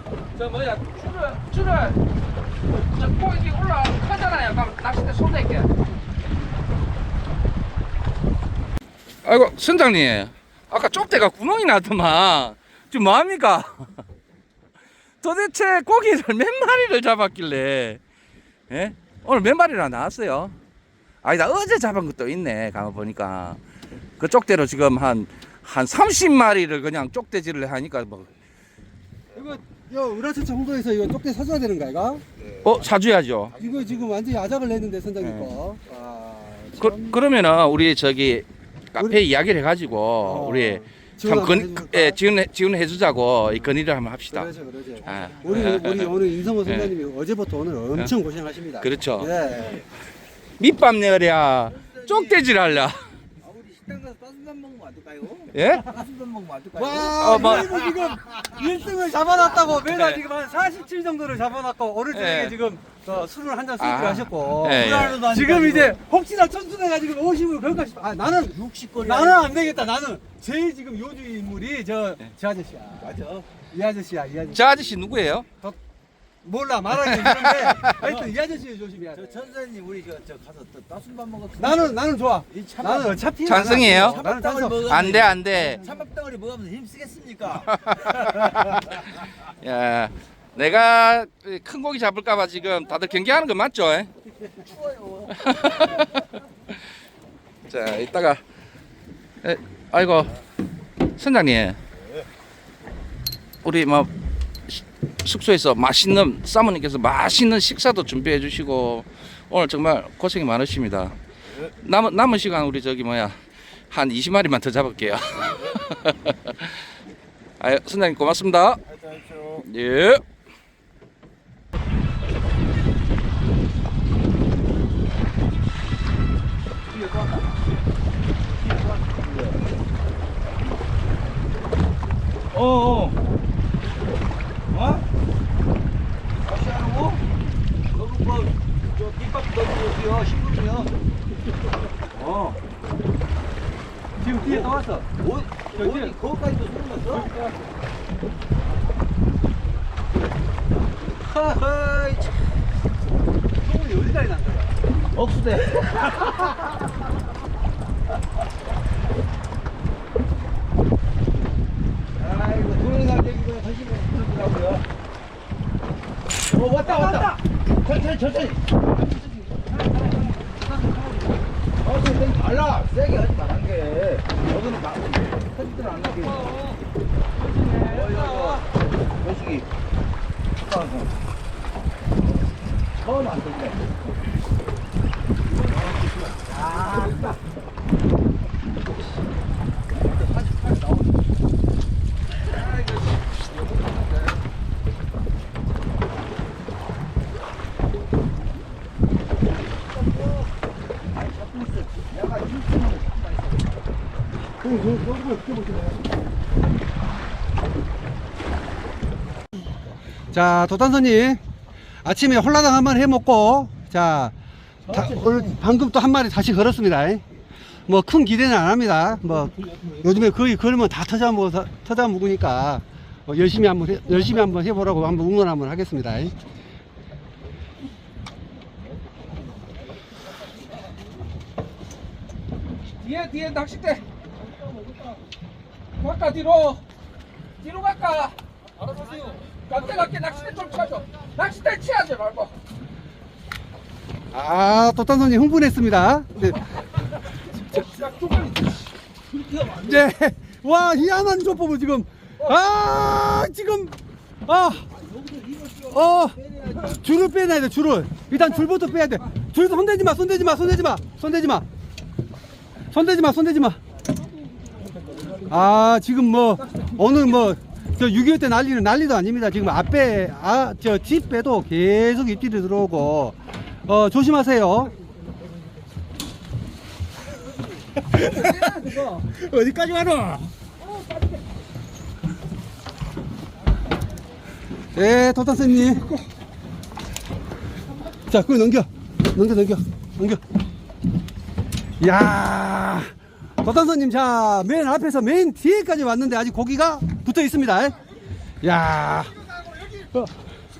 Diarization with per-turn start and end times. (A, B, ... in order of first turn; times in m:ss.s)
0:00.3-0:02.0 A
0:02.8-0:05.7 A
0:09.2-0:13.9 A
0:15.2-0:18.0 A
0:18.7-0:20.6 A
0:21.2-0:23.6 A
0:24.2-0:28.3 A
0:29.3-0:32.2 B
0:32.6-0:33.6 A
0:33.6-0:37.2 B
0:35.2-0:35.5 A
0:36.8-0:44.5 A
0:40.2-0:42.2 B
0:44.3-0:49.8 B
0:45.0-0:46.9 A
0:45.0-0:45.4 C
0:48.8-0:49.3 A
0:49.4-0:49.8 C
0:50.6-0:53.1 A
0:51.7-0:52.4 C
0:53.4-0:57.9 C
0:55.5-0:55.9 A
0:56.8-1:13.2 B
0:57.2-0:57.9 A
0:59.9-1:00.2 A
1:02.1-1:02.5 A
1:03.8-1:05.3 A
1:04.8-1:06.0 C
1:08.5-1:09.8 C
1:13.0-1:13.5 C
1:13.7-1:14.9 B
1:14.5-1:15.4 A
1:16.4-1:19.5 B
1:17.0-1:18.0 A
1:18.0-1:18.3 C
1:19.1-1:28.5 C
1:21.6-1:25.2 B
1:23.4-1:24.3 A
1:24.8-1:25.8 A
1:27.7-1:34.1 A
1:34.5-1:35.8 C
1:35.3-1:36.2 A
1:37.7-1:38.4 A
1:39.4-1:40.4 A
1:41.2-1:41.8 A
1:43.6-1:44.1 A
1:44.7-1:51.2 A
1:51.8-1:53.4 A
1:53.9-1:56.8 A
1:57.6-1:58.8 A
1:58.9-1:59.6 C
1:59.6-2:00.2 A
2:06.9-2:07.6 C
2:08.5-2:09.6 C
2:12.5-2:13.2 C
2:14.7-2:15.0 C
2:16.4-2:17.2 C
2:17.9-2:20.9 C
2:22.1-2:22.6 C
2:24.2-2:25.1 B
2:24.4-2:27.3 C
2:25.7-2:26.2 B
2:27.1-2:27.5 B
2:31.3-2:32.3 C
2:33.6-2:34.8 B
2:35.1-2:36.6 C
2:42.2-2:44.9 C
2:46.5-2:48.9 C
2:46.8-2:47.4 B
2:49.5-2:50.4 C
2:50.6-2:51.0 B
2:51.8-2:56.6 C
2:57.4-2:58.6 B
2:57.8-2:59.7 C
3:00.6-3:01.2 C
3:02.9-3:03.9 C
3:05.6-3:07.3 C
3:10.0-3:11.2 C
3:21.1-3:23.7 C
3:24.6-3:25.2 B
3:30.3-3:31.4 B
3:32.0-3:34.3 B
3:34.9-3:35.5 C
3:34.9-3:37.2 B
3:37.9-3:46.3 B
3:53.0-3:54.0 A
3:56.0-3:56.8 A
3:57.6-4:02.6 A
4:04.3-4:06.6 B
4:07.6-4:08.8 A
4:09.3-4:10.0 C
4:09.7-4:14.8 B
4:14.9-4:17.0 C
4:15.9-4:21.6 B
4:22.9-4:23.8 B
4:24.7-4:25.6 C
4:25.5-4:34.9 B
4:38.1-4:40.4 B
4:44.9-4:46.1 B
4:48.3-4:50.4 B
4:52.0-4:58.0 B
4:58.6-5:00.3 B